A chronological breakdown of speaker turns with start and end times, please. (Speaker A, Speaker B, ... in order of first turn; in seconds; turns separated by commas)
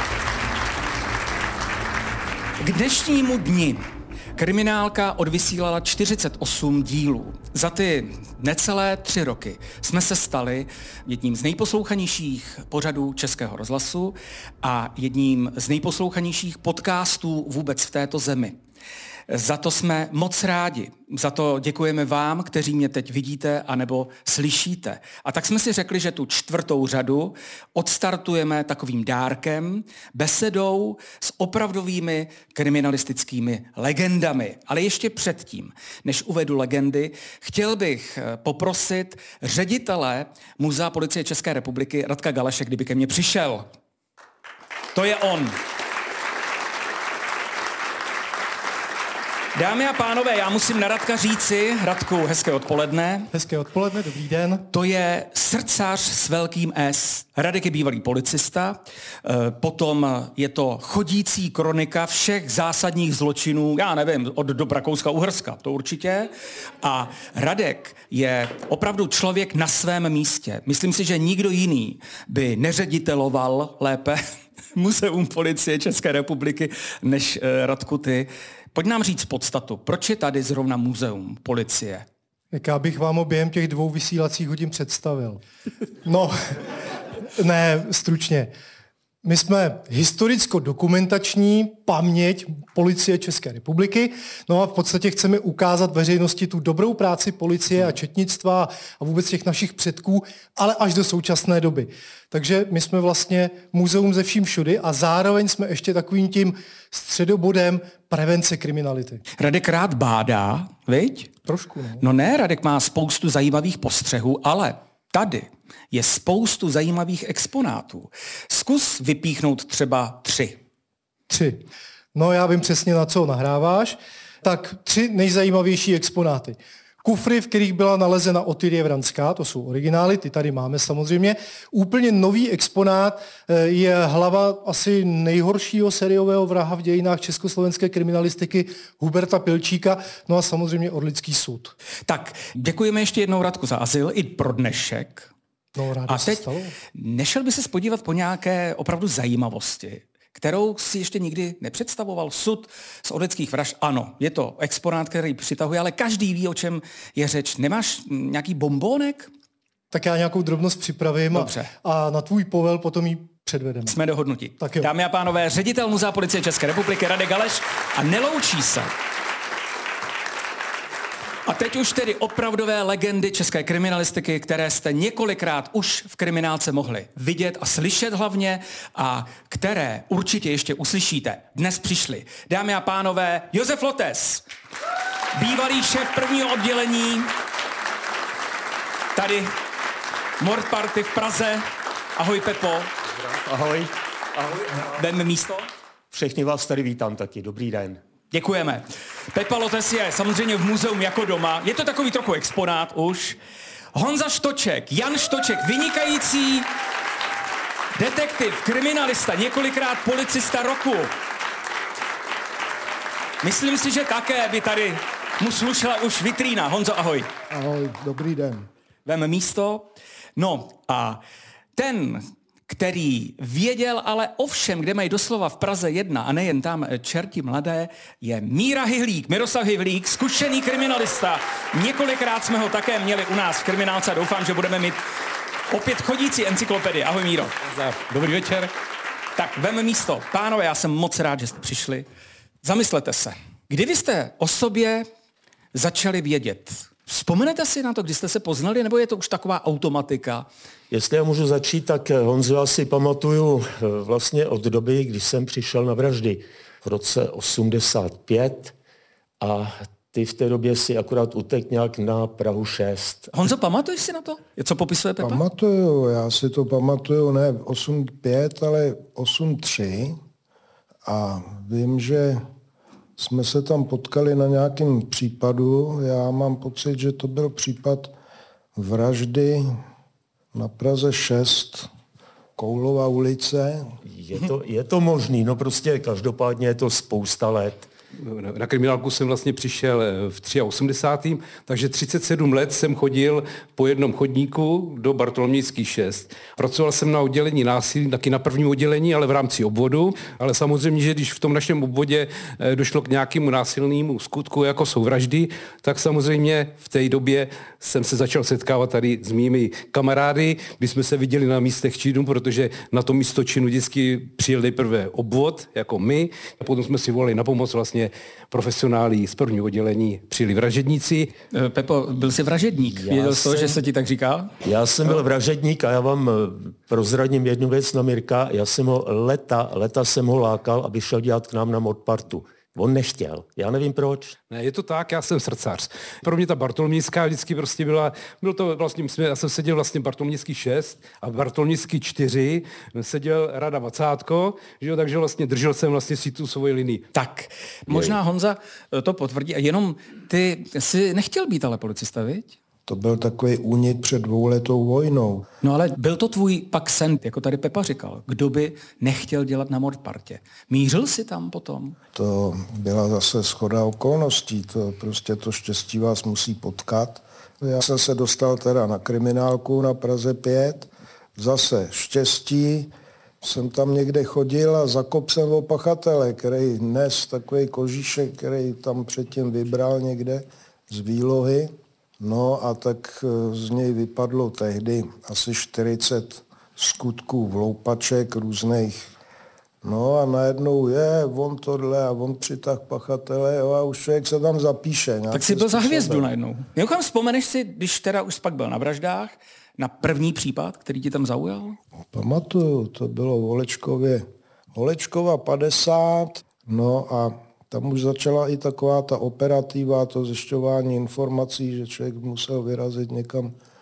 Speaker A: 2.6-3.8, Speaker A: 4.3-18.6, Speaker A: 19.3-43.7, Speaker A: 44.9-45.6, Speaker A: 49.5-53.3, Speaker B: 53.3-54.6, Speaker A: 54.7-74.2, Speaker A: 74.7-82.0, Speaker B: 82.5-85.4, Speaker B: 86.0-86.8, Speaker B: 87.3-88.5, Speaker B: 89.2-109.2, Speaker A: 109.4-111.5, Speaker B: 111.5-112.0, Speaker A: 112.0-120.6, Speaker B: 121.3-141.7, Speaker A: 142.1-145.3, Speaker B: 145.8-146.7, Speaker A: 146.1-159.3, Speaker B: 159.9-164.0, Speaker A: 161.3-161.7, Speaker A: 163.8-168.9, Speaker B: 164.6-164.9, Speaker A: 171.4-184.4, Speaker A: 185.3-187.3, Speaker A: 189.1-189.5, Speaker A: 190.4-192.9, Speaker C: 193.2-194.9, Speaker A: 194.8-195.7, Speaker C: 196.1-198.0, Speaker A: 198.3-203.4, Speaker A: 203.9-206.7, Speaker A: 207.9-211.1, Speaker A: 213.4-217.3, Speaker D: 217.5-218.7, Speaker A: 219.1-221.2, Speaker A: 221.8-235.0, Speaker A: 235.7-237.6, Speaker E: 237.6-238.7, Speaker A: 239.3-242.1, Speaker A: 242.6-245.1, Speaker A: 245.7-250.5, Speaker C: 250.9-258.7, Speaker C: 259.4-263.3, Speaker A: 263.3-265.4, Speaker D: 265.2-270.1, Speaker D: 271.1-272.4, Speaker D: 273.2-278.1, Speaker D: 278.8-279.6, Speaker D: 280.5-281.9, Speaker D: 282.6-283.9, Speaker C: 284.0-287.9, Speaker E: 288.2-321.3, Speaker A: 321.5-324.5, Speaker C: 322.9-323.8, Speaker C: 324.6-334.4, Speaker E: 334.5-347.0, Speaker A: 347.1-352.6, Speaker C: 347.9-348.1, Speaker D: 352.9-355.4, Speaker A: 355.6-362.0, Speaker D: 362.1-372.9, Speaker D: 373.4-389.1, Speaker D: 389.8-396.3, Speaker A: 395.3-401.8, Speaker D: 402.1-404.2, Speaker D: 404.7-413.5